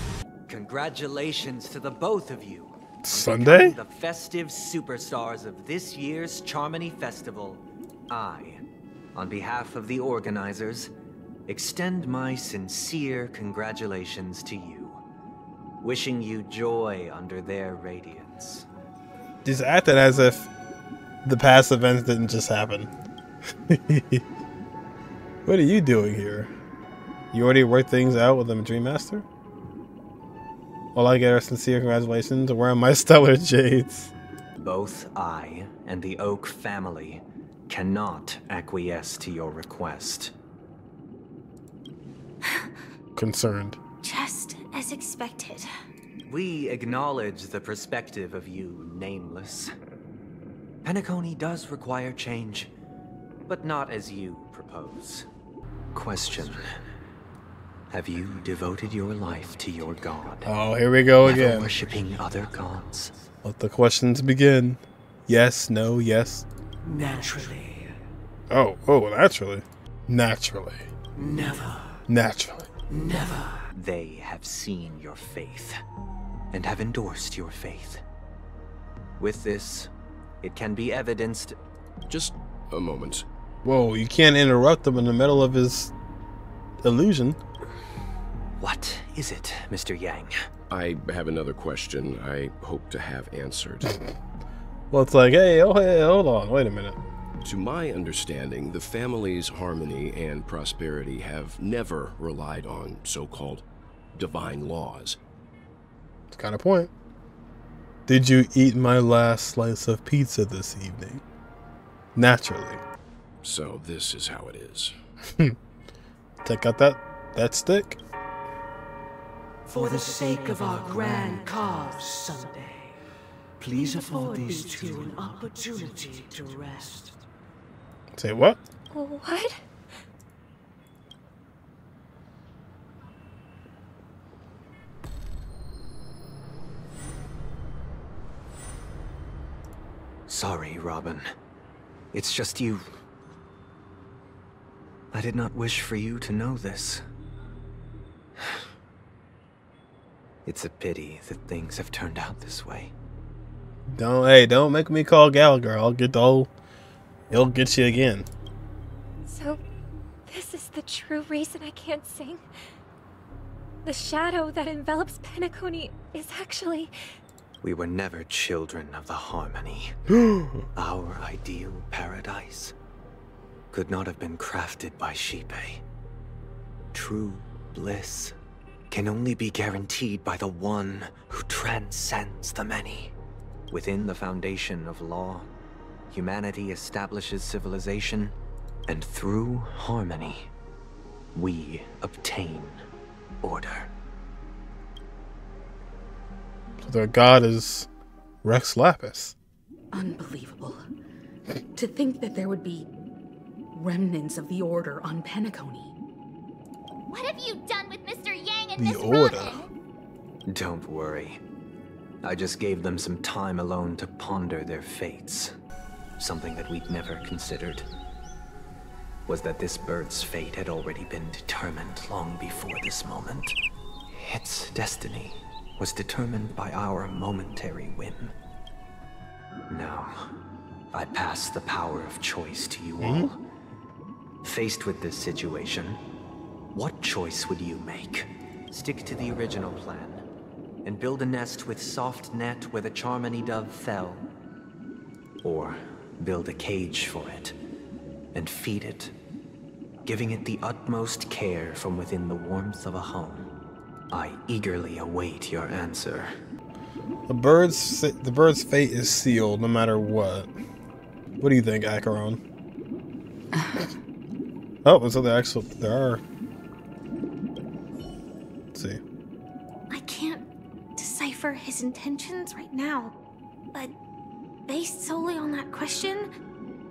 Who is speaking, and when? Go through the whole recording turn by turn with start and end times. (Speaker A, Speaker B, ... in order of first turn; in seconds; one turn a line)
Speaker A: 0.5-8.6
Speaker B: 3.0-3.8
Speaker A: 9.1-10.9
Speaker A: 11.5-15.0
Speaker A: 15.8-18.6
Speaker B: 19.4-20.5
Speaker B: 21.2-22.9
Speaker B: 23.7-24.2
Speaker B: 25.4-26.5
Speaker B: 27.3-29.2
Speaker B: 30.9-34.1
Speaker A: 34.6-40.3
Speaker B: 43.1-43.8
Speaker C: 44.0-45.7
Speaker A: 46.3-49.7
Speaker A: 50.8-52.7
Speaker A: 53.5-55.2
Speaker A: 55.9-56.8
Speaker A: 57.9-60.5
Speaker B: 60.4-61.8
Speaker A: 61.2-63.1
Speaker B: 63.4-66.5
Speaker D: 66.9-67.2
Speaker E: 67.0-67.4
Speaker B: 68.5-70.9
Speaker B: 72.1-72.8
Speaker A: 73.7-75.8
Speaker A: 76.5-78.0
Speaker A: 79.2-79.9
Speaker A: 80.4-81.5
Speaker F: 82.1-83.2
Speaker B: 83.6-85.9
Speaker B: 86.8-87.4
Speaker A: 88.6-90.3
Speaker F: 90.7-94.0
Speaker B: 94.9-97.0
Speaker F: 97.4-103.6
Speaker F: 104.1-105.2
Speaker B: 106.3-106.9
Speaker B: 108.1-111.2
Speaker B: 112.1-112.8
Speaker F: 113.4-114.9
Speaker B: 116.4-118.0
Speaker D: 119.7-122.8
Speaker E: 119.8-122.5
Speaker E: 123.6-126.8
Speaker D: 123.7-127.1
Speaker B: 128.1-128.6
Speaker G: 128.9-129.6
Speaker A: 140.3-141.3
Speaker A: 142.1-142.9
Speaker A: 145.1-147.0
Speaker A: 150.4-152.9
Speaker B: 153.9-156.5
Speaker B: 157.3-158.3
Speaker G: 159.2-159.6
Speaker G: 160.3-162.4
Speaker G: 163.8-166.9
Speaker A: 167.6-170.0
Speaker B: 170.1-170.7
Speaker A: 170.7-172.7
Speaker A: 173.7-175.8
Speaker A: 176.9-178.3
Speaker A: 178.9-183.1
Speaker A: 183.7-185.5
Speaker A: 186.1-188.3
Speaker A: 188.9-190.5
Speaker A: 191.3-192.8
Speaker A: 193.4-193.9
Speaker B: 196.8-197.9
Speaker B: 198.4-199.3
Speaker D: 199.9-200.8
Speaker D: 201.7-202.9
Speaker D: 203.7-205.9
Speaker H: 207.1-209.7
Speaker B: 208.8-209.6
Speaker A: 210.5-211.4
Speaker A: 212.2-215.5
Speaker A: 216.2-217.9
Speaker A: 219.3-223.5
Speaker A: 224.1-228.3
Speaker A: 229.7-230.2
Speaker A: 230.9-233.4
Speaker B: 233.0-233.3
Speaker A: 234.4-236.0
Speaker A: 236.7-240.2
Speaker A: 240.8-244.2
Speaker A: 245.4-247.5
Speaker A: 248.3-249.1
Speaker A: 250.0-253.5
Speaker A: 254.1-256.3
Speaker B: 257.3-260.5
Speaker B: 261.4-262.4
Speaker B: 264.8-266.2
Speaker B: 268.7-269.0
Speaker C: 269.9-273.1
Speaker C: 274.7-276.3